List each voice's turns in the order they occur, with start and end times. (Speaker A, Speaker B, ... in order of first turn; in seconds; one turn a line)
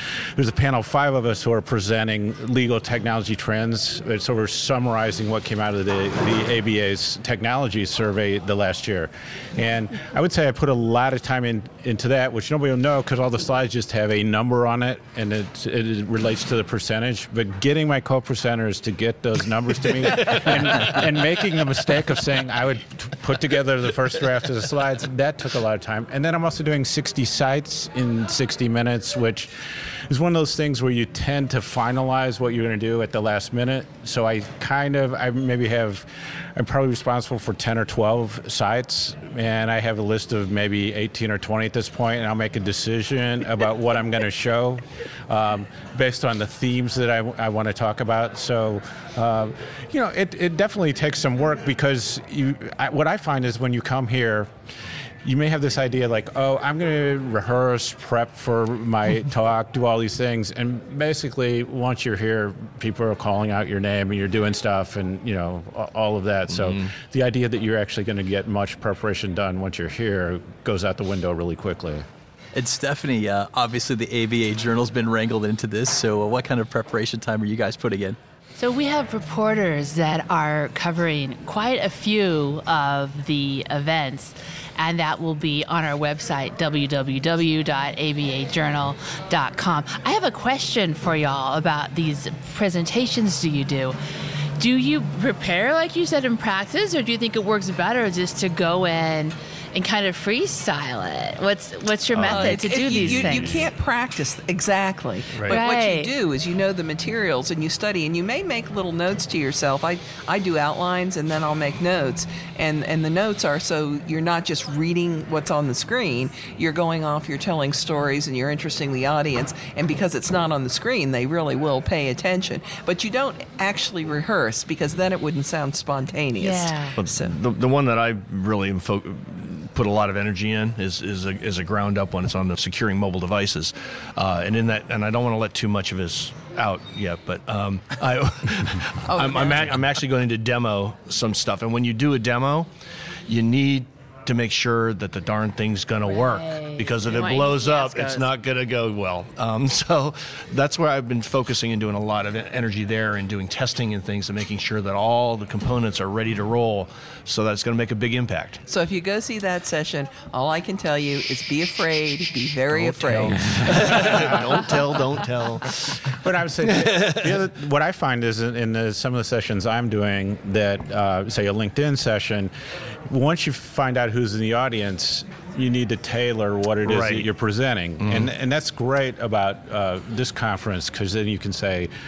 Speaker A: 0.3-29.5
Speaker A: 30.1-54.5
Speaker A: 55.2-72.0
Speaker B: 66.5-66.8
Speaker C: 72.5-78.2
Speaker D: 78.5-94.0
Speaker D: 94.6-103.6
Speaker B: 102.1-103.6
Speaker E: 102.3-127.3
Speaker D: 105.5-106.1
Speaker D: 126.4-126.9
Speaker B: 127.0-142.7
Speaker D: 139.1-139.6
Speaker B: 143.3-158.6
Speaker D: 146.1-148.3
Speaker E: 158.7-163.4
Speaker B: 162.7-166.1
Speaker A: 164.1-164.5
Speaker A: 166.2-172.5
Speaker B: 166.8-167.3
Speaker A: 173.1-181.9
Speaker B: 176.8-177.3
Speaker B: 178.0-178.3